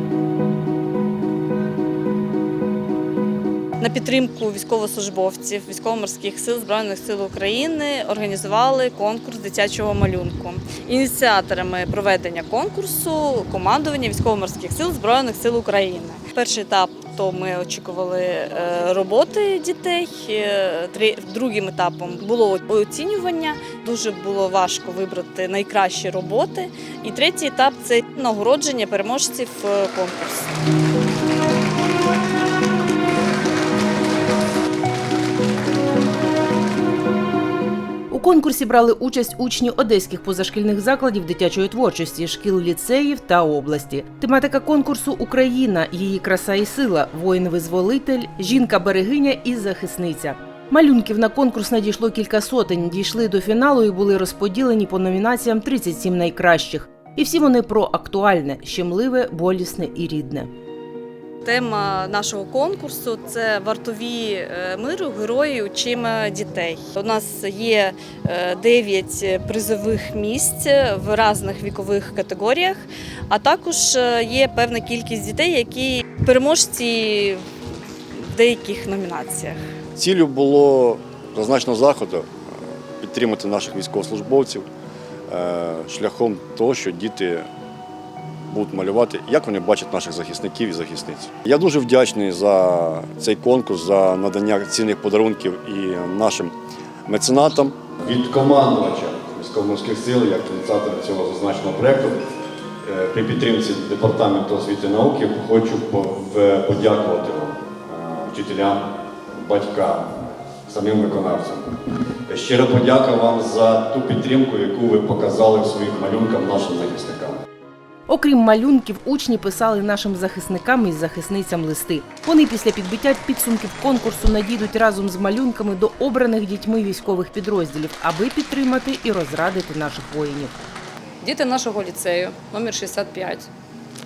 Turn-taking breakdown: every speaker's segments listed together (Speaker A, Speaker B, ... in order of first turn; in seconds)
Speaker A: 3.8-30.5, 61.4-77.4, 78.1-79.6
Speaker B: 38.1-60.5, 118.1-130.5
Speaker C: 80.0-82.3, 83.0-84.7, 85.3-87.5, 88.5-96.5, 97.1-102.2, 102.8-110.1, 110.7-117.4
Speaker D: 131.2-133.5